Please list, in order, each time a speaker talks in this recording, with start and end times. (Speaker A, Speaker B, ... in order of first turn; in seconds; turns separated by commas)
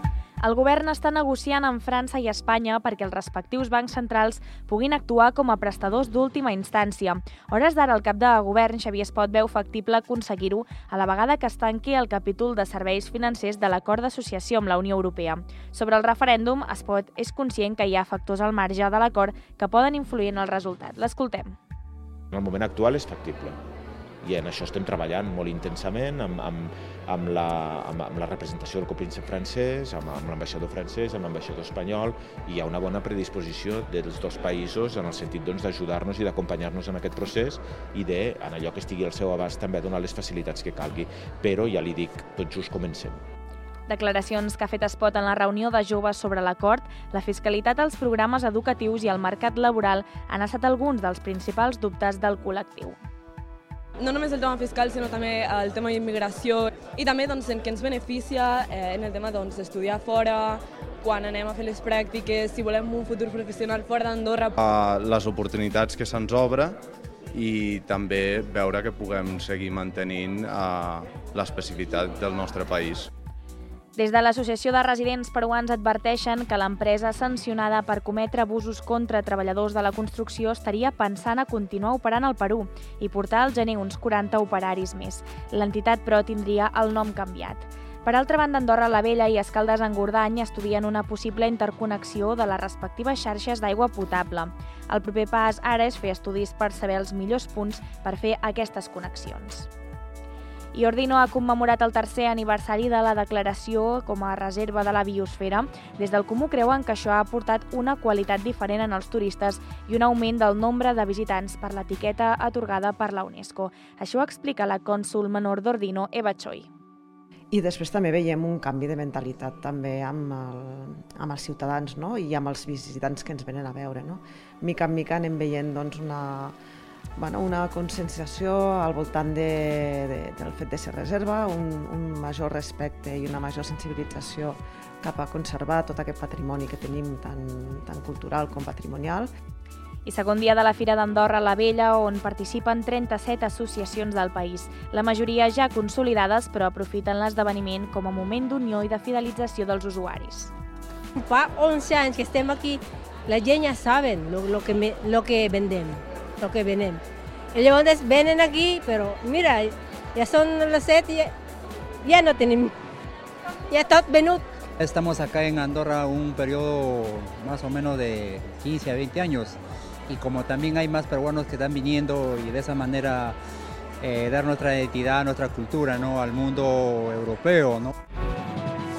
Speaker A: 0.4-21.5, Speaker B: 22.3-23.6, Speaker B: 24.2-43.2, Speaker A: 43.9-53.0, Speaker C: 54.0-64.5, Speaker D: 64.6-66.8, Speaker D: 67.3-73.1, Speaker A: 74.0-99.7, Speaker A: 100.7-116.7, Speaker E: 117.5-126.5, Speaker E: 127.2-139.3, Speaker A: 140.0-150.5, Speaker F: 151.2-157.0, Speaker F: 157.5-161.3, Speaker F: 162.0-162.7, Speaker F: 163.7-164.4, Speaker G: 164.8-173.4, Speaker G: 174.0-177.9